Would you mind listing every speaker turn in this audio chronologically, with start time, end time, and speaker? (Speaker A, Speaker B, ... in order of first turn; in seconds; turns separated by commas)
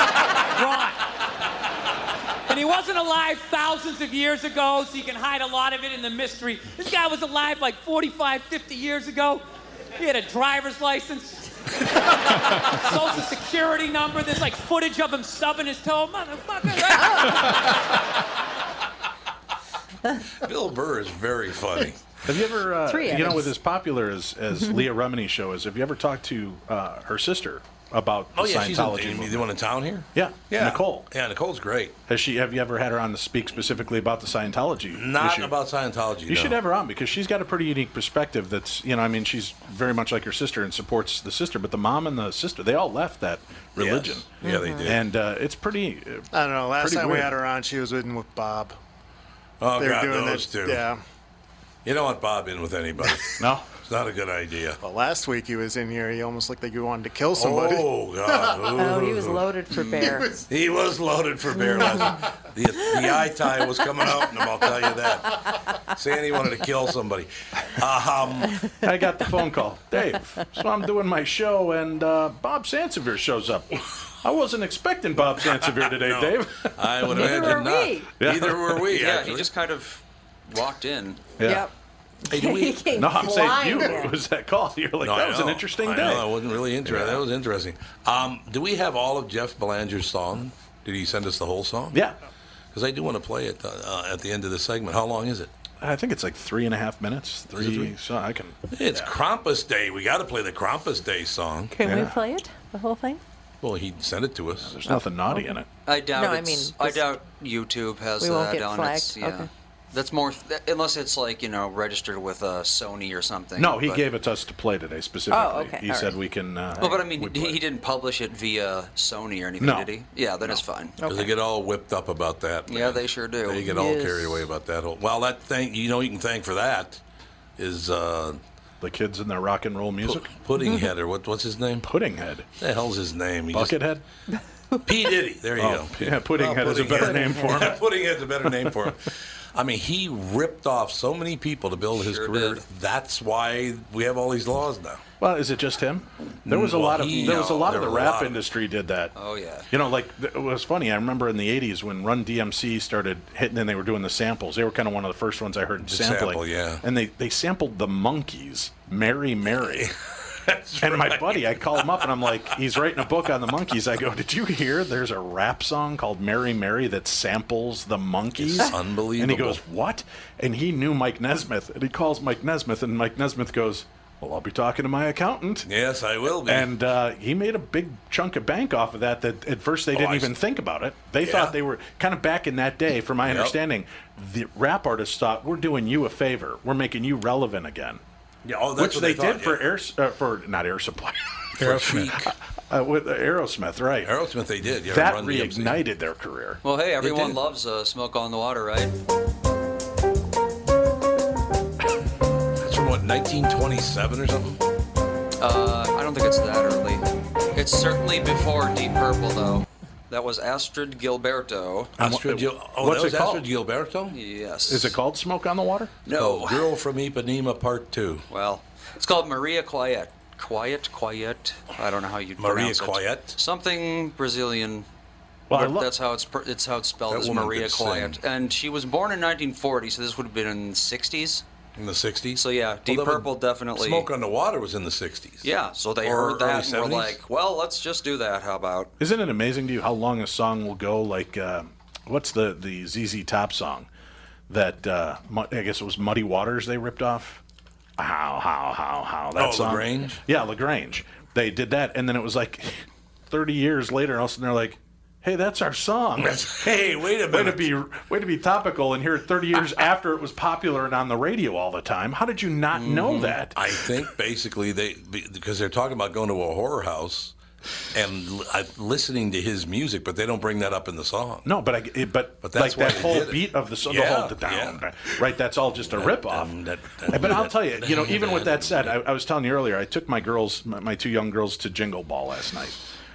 Speaker A: 0.4-1.0, Speaker A: 2.5-9.4, Speaker A: 9.9-17.8, Speaker B: 20.4-22.0, Speaker C: 22.2-29.5, Speaker D: 22.8-23.5, Speaker B: 28.3-31.9, Speaker C: 30.1-31.1, Speaker C: 32.1-35.5, Speaker B: 34.9-36.6, Speaker C: 36.3-44.3, Speaker B: 43.8-45.0, Speaker D: 44.4-44.9, Speaker C: 44.8-47.4, Speaker E: 46.3-48.8, Speaker B: 49.6-50.9, Speaker E: 49.8-51.0, Speaker B: 51.8-54.8, Speaker C: 53.4-53.6, Speaker E: 54.8-58.5, Speaker B: 57.3-68.6, Speaker D: 58.6-60.4, Speaker C: 68.8-77.6, Speaker B: 75.9-79.5, Speaker D: 77.0-78.1, Speaker C: 78.2-78.9, Speaker F: 78.9-81.4, Speaker C: 81.4-81.7, Speaker D: 81.4-81.7, Speaker D: 82.3-84.1, Speaker B: 82.3-82.8, Speaker C: 82.9-86.3, Speaker B: 85.0-92.0, Speaker C: 86.8-87.2, Speaker B: 92.7-95.5, Speaker C: 95.8-99.1, Speaker B: 97.5-97.9, Speaker B: 98.7-101.7, Speaker D: 101.7-103.2, Speaker C: 101.8-102.2, Speaker B: 103.6-104.8, Speaker C: 104.6-105.7, Speaker D: 104.9-105.6, Speaker F: 105.8-114.0, Speaker D: 106.1-107.0, Speaker D: 108.2-109.5, Speaker C: 113.6-117.6, Speaker D: 115.3-116.2, Speaker F: 116.8-121.0, Speaker C: 119.6-119.9, Speaker D: 121.0-121.3, Speaker B: 121.0-127.0, Speaker F: 122.7-123.7, Speaker D: 123.7-124.5, Speaker B: 127.6-128.4, Speaker C: 128.8-130.3, Speaker B: 130.0-131.9, Speaker C: 131.8-132.5, Speaker B: 132.6-133.8, Speaker C: 133.5-134.0, Speaker B: 134.8-145.0, Speaker C: 135.6-137.8, Speaker C: 138.6-138.9, Speaker F: 141.9-142.6, Speaker C: 145.2-149.1, Speaker B: 146.4-148.4, Speaker F: 147.0-148.2, Speaker F: 149.1-149.7, Speaker C: 149.7-159.9, Speaker B: 155.8-156.8, Speaker B: 159.8-162.2, Speaker C: 160.8-175.7, Speaker B: 168.3-169.6, Speaker B: 175.6-176.7, Speaker C: 176.3-188.0, Speaker B: 179.9-180.3, Speaker B: 181.2-181.6, Speaker B: 183.2-183.6, Speaker B: 188.4-189.7, Speaker C: 188.8-194.1, Speaker B: 191.6-192.3, Speaker B: 194.0-195.8, Speaker C: 194.8-196.6, Speaker F: 196.6-198.9, Speaker B: 197.0-197.4, Speaker B: 202.6-204.6, Speaker F: 205.4-211.9, Speaker C: 212.0-213.4, Speaker B: 212.0-214.2, Speaker F: 214.1-214.9, Speaker C: 214.7-216.0, Speaker F: 216.0-216.7, Speaker B: 216.1-218.2, Speaker F: 218.3-224.8, Speaker B: 222.4-223.4, Speaker C: 225.5-225.9, Speaker F: 225.5-231.4, Speaker B: 227.1-228.2, Speaker B: 231.8-235.5, Speaker F: 232.3-234.1, Speaker F: 235.4-238.9, Speaker B: 236.0-237.2, Speaker C: 239.0-243.9, Speaker C: 244.5-247.4, Speaker C: 248.0-263.6, Speaker B: 249.3-250.2, Speaker B: 256.2-257.7, Speaker F: 262.7-263.4, Speaker B: 263.5-267.3, Speaker B: 267.9-271.5, Speaker C: 271.4-276.5, Speaker B: 272.4-275.2, Speaker B: 275.9-279.0, Speaker C: 277.1-282.8